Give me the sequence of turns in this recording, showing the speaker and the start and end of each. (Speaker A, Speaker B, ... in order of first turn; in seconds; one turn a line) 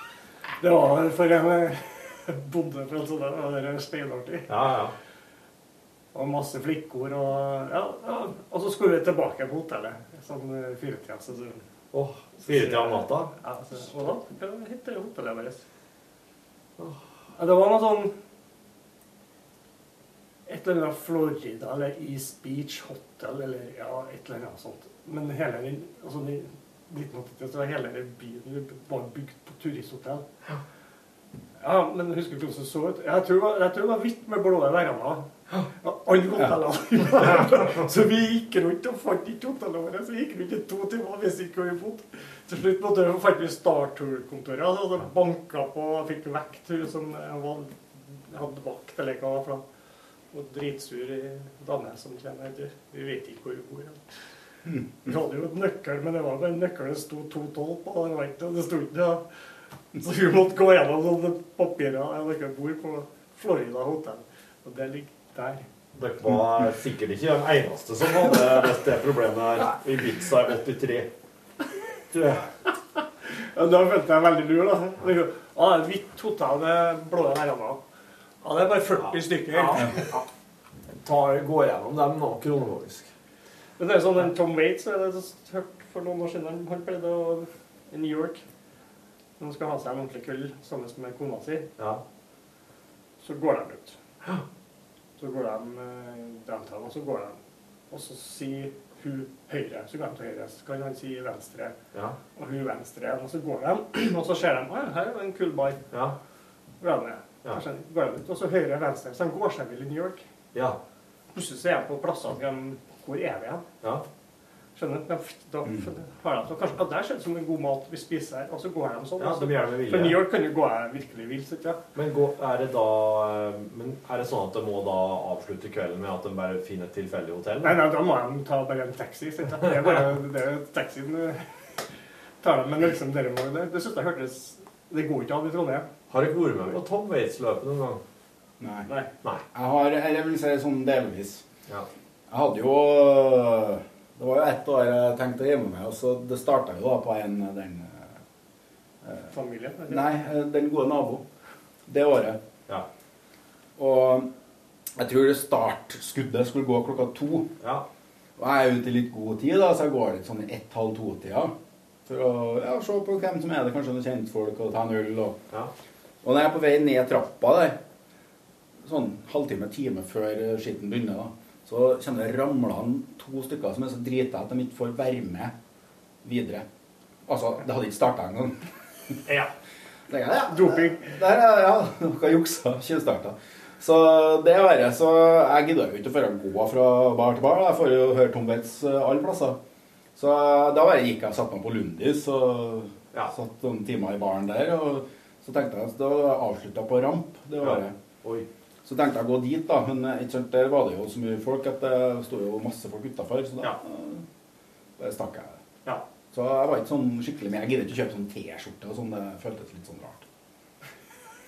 Speaker A: 0.6-4.5
Speaker B: 4.5-5.0
Speaker A: 6.1-11.6
Speaker B: 11.9-13.3
Speaker A: 12.3-15.6
Speaker A: 17.4-18.1
Speaker A: 20.5-30.2
Speaker A: 31.6-35.3
Speaker A: 35.8-49.6
Speaker A: 50.3-54.0
Speaker A: 55.0-59.2
Speaker A: 60.0-65.7
Speaker B: 65.9-71.1
Speaker B: 72.1-72.5
Speaker A: 73.4-77.8
Speaker A: 78.4-80.2
Speaker B: 79.5-80.2
Speaker B: 80.9-83.1
Speaker A: 83.8-88.4
Speaker A: 89.4-91.7
Speaker B: 91.8-92.0
Speaker A: 93.2-94.0
Speaker A: 95.2-97.4
Speaker A: 97.9-101.8
Speaker A: 102.3-105.8
Speaker B: 105.9-106.2
Speaker A: 106.8-110.2
Speaker B: 110.5-110.8
Speaker A: 111.3-113.6
Speaker A: 114.8-121.8
Speaker B: 119.2-120.2
Speaker B: 122.0-127.8
Speaker A: 127.6-131.5
Speaker A: 132.4-135.9
Speaker B: 136.1-138.0
Speaker C: 138.6-138.9
Speaker C: 139.5-141.4
Speaker C: 142.3-148.2
Speaker A: 149.3-150.2
Speaker C: 149.9-151.2
Speaker C: 151.9-152.4
Speaker C: 153.8-154.3
Speaker C: 155.0-157.5
Speaker B: 157.6-157.9
Speaker C: 158.4-161.5
Speaker C: 162.1-165.4
Speaker C: 166.2-167.8
Speaker C: 168.8-175.6
Speaker C: 176.2-176.7
Speaker C: 177.3-178.6
Speaker C: 180.1-189.6
Speaker A: 180.4-181.1
Speaker C: 190.2-197.9
Speaker B: 197.6-198.5
Speaker C: 198.8-204.2
Speaker C: 205.0-205.6
Speaker C: 206.3-210.3